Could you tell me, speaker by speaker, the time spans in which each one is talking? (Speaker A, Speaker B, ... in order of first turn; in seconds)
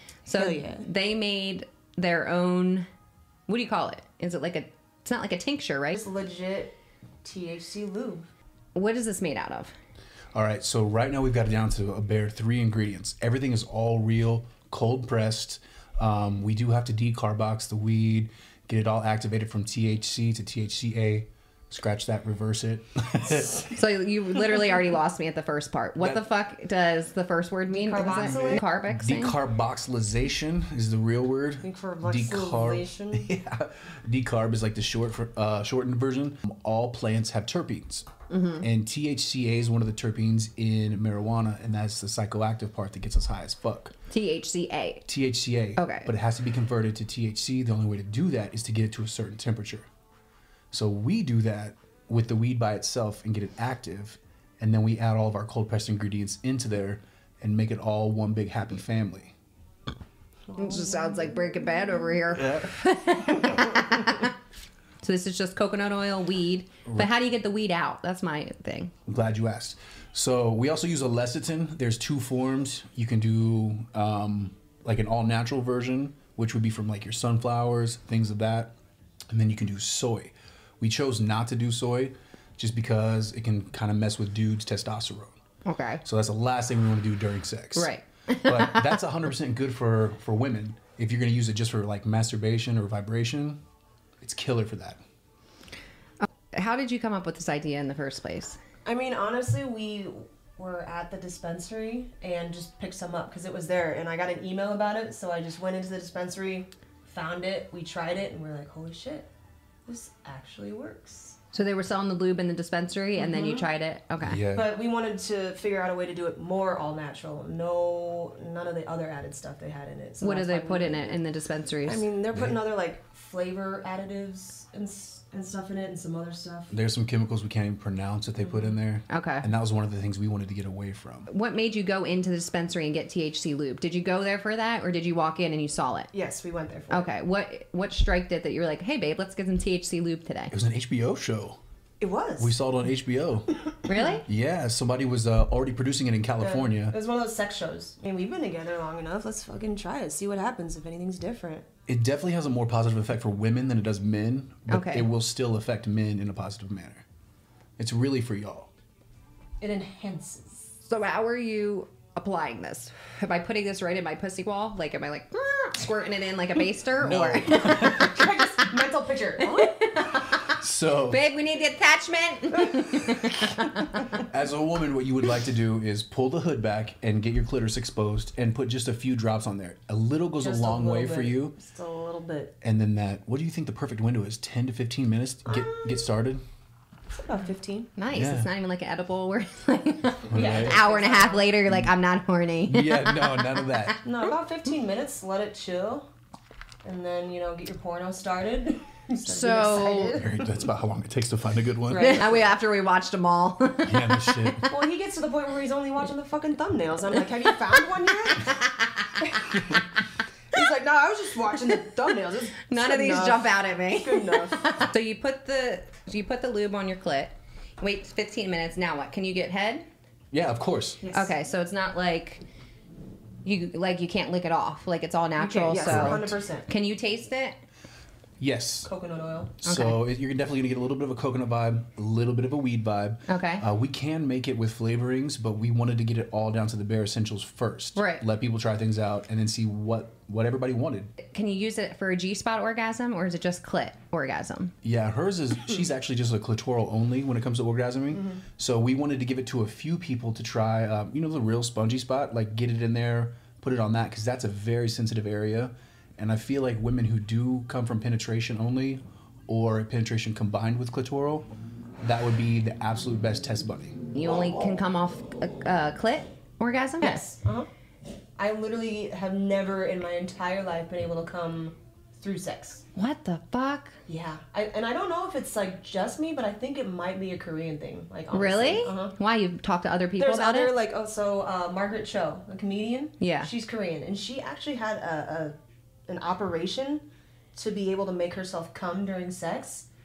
Speaker A: 0.3-2.9, 3.5-6.0, 8.8-9.7, 23.8-29.4, 38.3-38.6, 44.1-45.0, 45.8-46.1, 60.6-64.3, 65.0-68.9, 85.7-86.0, 87.8-89.0, 96.2-98.6, 111.5-114.4, 120.2-122.1, 129.1-129.5, 131.3-136.1, 136.9-140.5, 143.9-144.2, 154.7-155.1, 160.9-168.2, 169.6-170.4, 171.1-174.1, 188.0-193.9, 199.2-200.2, 201.9-204.6, 208.3-209.3, 212.7-219.9, 221.1-222.4, 223.4-227.6, 229.7-230.0, 233.3-233.6, 237.9-238.2, 241.2-244.8, 264.1-267.2, 272.9-273.9, 278.3-280.7, 283.2-283.5
Speaker B: 0.3-0.8, 5.9-8.3, 27.7-28.6, 31.6-33.3, 60.5-61.4, 98.8-109.3, 109.9-111.4, 113.2-113.7, 114.5-121.2, 121.9-126.7, 136.1-137.1, 142.0-142.6, 143.9-144.2, 146.4-151.7, 159.6-160.7, 167.7-169.9, 180.4-182.5, 185.5-186.1, 187.1-187.9, 190.3-191.5, 194.0-196.1, 196.8-200.7, 201.9-202.4, 204.7-208.5, 209.4-209.8, 210.5-214.7, 221.0-221.3, 225.4-226.7, 228.8-229.5, 267.0-267.7, 268.4-272.8, 274.1-279.1, 280.2-285.6, 286.1-289.9
Speaker C: 10.3-23.7, 26.0-26.2, 28.2-38.1, 38.6-44.0, 45.1-49.9, 50.7-59.3, 62.3-62.8, 66.8-67.1, 69.1-78.7, 79.3-85.3, 86.0-87.9, 88.5-93.6, 94.2-95.0, 114.2-114.8, 122.3-122.6, 126.7-131.3, 140.5-141.6, 142.4-143.5, 144.2-147.0, 151.9-157.0, 157.8-158.7, 167.0-168.2, 170.5-171.2, 174.2-181.6, 182.6-186.4, 188.1-188.5, 190.3-190.8, 192.7-194.0, 200.1-202.2, 203.8-204.7, 220.3-221.0, 225.8-226.3, 228.4-228.9, 229.6-241.1, 244.8-261.5, 262.0-264.0